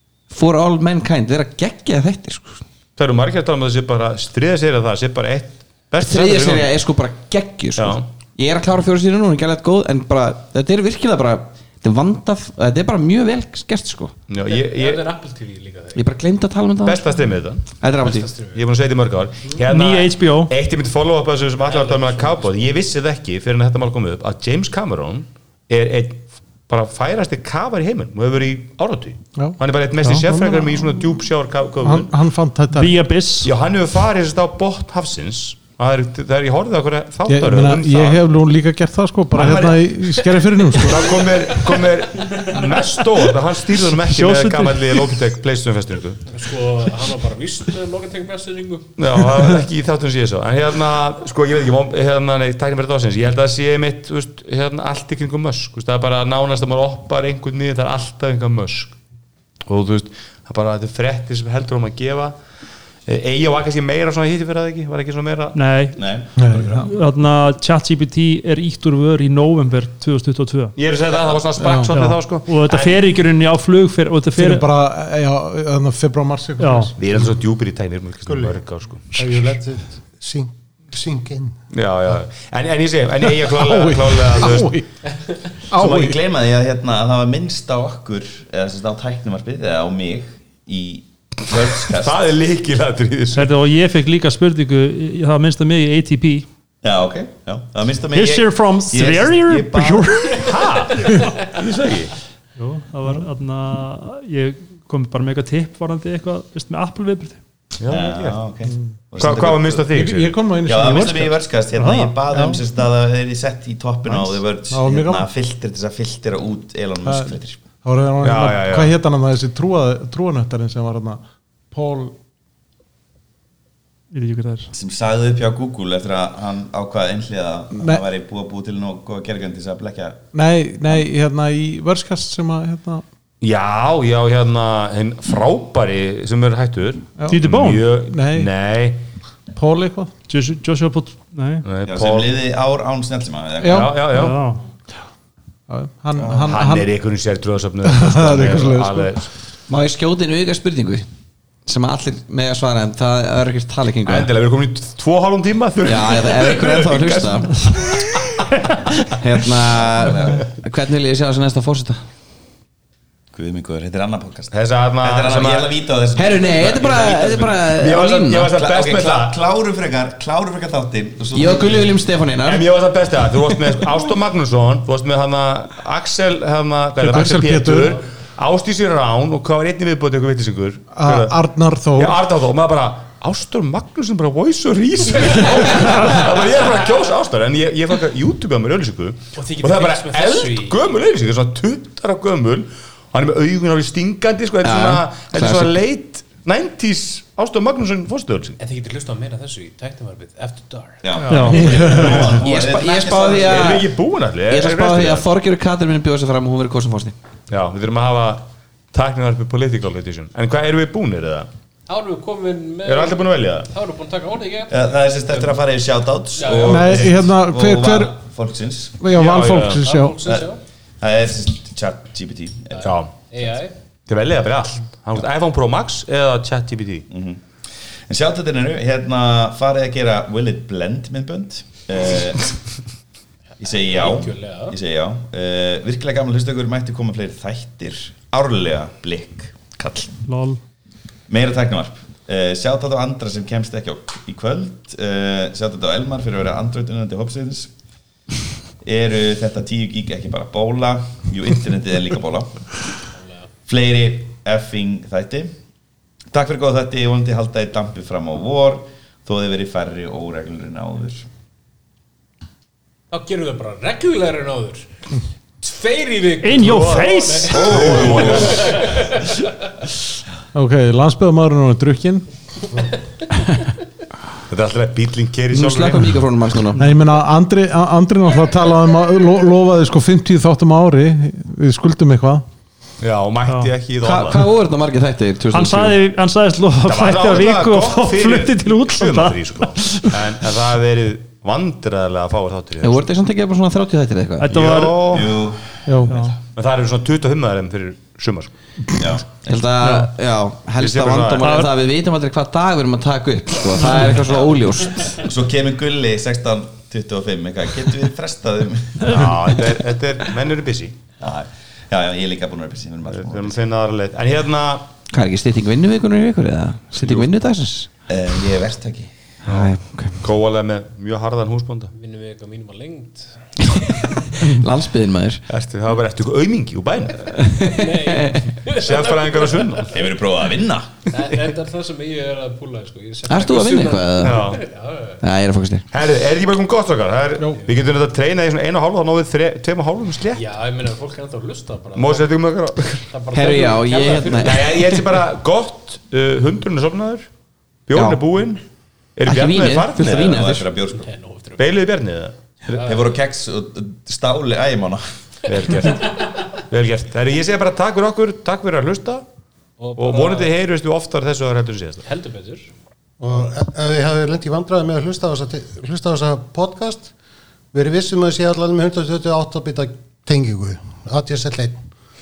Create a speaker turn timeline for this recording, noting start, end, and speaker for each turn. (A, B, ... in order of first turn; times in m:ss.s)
0:00.3-0:02.6 A
0:03.0-0:06.7 B
0:06.0-0:14.2 A
0:07.8-0:08.1 B
0:14.3-0:15.0 B
0:14.4-0:16.1 C
0:15.9-0:18.3 A
0:16.8-0:17.7 B
0:17.9-0:18.6 C
0:18.5-0:32.1 B
0:19.7-0:20.5 D
0:21.6-0:22.8 C
0:29.4-0:31.2 E
0:31.8-0:32.9 E
0:32.7-0:33.5 D
0:33.4-0:38.2 B
0:37.3-0:41.2 E
0:39.3-0:46.3 B
0:44.0-0:45.1 D
0:46.3-0:49.0 C
0:49.0-0:59.0 B
0:59.7-1:02.3 B
1:03.1-1:05.6 B
1:05.5-1:06.0 D
1:06.0-1:06.8 F
1:06.4-1:06.9 E
1:06.7-1:10.7 D
1:10.8-1:13.0 B
1:11.6-1:11.9 E
1:11.9-1:14.6 D
1:14.3-1:17.1 E
1:16.6-1:16.9 D
1:17.0-1:19.5 B
1:18.2-1:21.6 G
1:21.7-1:24.8 B
1:23.5-1:24.9 E
1:25.7-1:26.2 E
1:25.7-1:32.2 F
1:31.9-1:33.5 B
1:33.3-1:36.4 D
1:36.8-1:40.4 F
1:38.1-1:40.5 D
1:40.3-1:42.1 B
1:42.6-1:47.4 D
1:47.8-1:48.4 B
1:47.9-1:49.9 F
1:49.2-1:50.4 B
1:49.9-1:51.5 E
1:50.6-1:57.6 F
1:51.8-1:52.1 D
1:52.3-1:52.6 E
1:54.0-1:55.3 E
1:57.0-2:02.2 E
1:58.2-1:58.9 B
2:04.1-2:04.7 D
2:04.7-2:10.2 F
2:07.7-2:08.0 E
2:10.3-2:13.0 E
2:13.4-2:19.0 B
2:17.3-2:17.8 D
2:18.1-2:18.5 E
2:19.5-2:20.1 E
2:20.3-2:21.6 D
2:21.6-2:22.3 B
2:21.9-2:24.0 F
2:23.6-2:24.0 E
2:23.6-2:24.4 B
2:24.1-2:24.6 D
2:25.7-2:26.9 E
2:26.2-2:26.6 F
2:26.3-2:29.3 B
2:27.8-2:29.2 E
2:29.7-2:31.1 A
2:31.6-2:34.3 A
2:34.0-2:38.3 B
2:35.8-2:37.6 A
2:39.1-2:42.0 A
2:39.6-2:40.5 F
2:43.3-2:47.7 F
2:44.5-2:45.7 B
2:46.2-2:48.5 A
2:47.7-2:49.4 B
2:48.5-2:52.0 F
2:51.3-2:52.7 A
2:52.4-3:01.4 B
2:57.0-2:58.0 E
3:00.9-3:02.2 E
3:01.9-3:18.6 B
3:05.3-3:05.9 C
3:09.3-3:11.0 C
3:14.6-3:15.8 A
3:18.6-3:22.0 C
3:21.0-3:23.8 F
3:21.3-3:21.7 D
3:21.5-3:22.3 E
3:21.9-3:22.4 B
3:22.1-3:23.9 A
3:23.4-3:25.3 B
3:24.5-3:27.1 A
3:27.5-3:31.5 B
3:31.9-3:35.6 C
3:32.8-3:33.7 B
3:34.7-3:39.1 F
3:36.3-3:37.0 C
3:36.7-3:38.1 E
3:39.0-3:40.2 E
3:39.1-3:39.9 B
3:39.6-3:40.6 C
3:41.0-3:42.9 F
3:42.7-3:43.7 C
3:42.8-3:43.1 B
3:44.1-3:47.1 B
3:47.1-3:47.4 F
3:48.1-3:52.5 F
3:53.6-4:00.1 F
3:53.6-3:54.8 C
4:00.2-4:00.6 D
4:01.3-4:07.7 F
4:08.8-4:12.7 F
4:13.2-4:13.5 C
4:13.7-4:15.5 F
4:16.3-4:21.3 F
4:23.1-4:24.9 C
4:25.6-4:29.5 C
4:26.4-4:27.9 D
4:27.5-4:28.8 F
4:27.5-4:28.8 B
4:30.5-4:32.2 E
4:34.5-4:36.2 B
4:35.5-4:36.9 A
4:36.7-4:42.4 E
4:43.0-4:44.4 B
4:44.0-4:46.0 A
4:45.5-4:50.1 D
4:46.8-4:53.0 B
4:52.8-4:54.5 A
4:54.4-4:55.0 D
4:54.5-4:55.3 B
4:55.0-4:56.4 F
4:55.8-4:56.2 E
4:56.5-4:58.5 B
4:59.0-4:59.6 F
4:59.4-5:05.2 A
4:59.8-5:00.1 D
5:00.8-5:01.4 B
5:01.4-5:01.7 D
5:03.8-5:04.2 D
5:04.1-5:04.5 F
5:05.0-5:09.5 F
5:09.1-5:11.0 B
5:11.2-5:13.5 F
5:13.1-5:14.9 B
5:15.1-5:17.9 A
5:16.9-5:17.3 B
5:18.1-5:19.1 F
5:19.4-5:20.2 A
5:19.4-5:21.9 B
5:21.9-5:23.4 C
5:23.8-5:25.4 A
5:25.5-5:27.5 B
5:27.4-5:28.4 A
5:27.5-5:29.9 C
5:28.7-5:30.0 B
5:29.9-5:31.1 F
5:31.1-5:35.2 C
5:33.3-5:34.4 A
5:34.2-5:34.6 B
5:35.2-5:35.9 A
5:35.9-5:40.4 B
5:40.3-5:42.3 C
5:41.9-5:43.1 B
5:43.1-5:45.0 C
5:43.3-5:44.8 A
5:44.3-5:47.3 B
5:47.9-5:48.6 B
5:47.9-5:48.2 A
5:49.2-5:50.4 B
5:49.2-5:50.7 A
5:50.0-5:51.1 F
5:50.9-5:51.6 C
5:51.6-5:52.4 B
5:52.7-5:53.1 C
5:52.7-5:55.0 F
5:55.4-5:59.2 B
5:59.8-6:00.5 C
6:00.0-6:02.0 B
6:02.0-6:02.7 C
6:03.2-6:07.1 G
6:07.7-6:11.8 G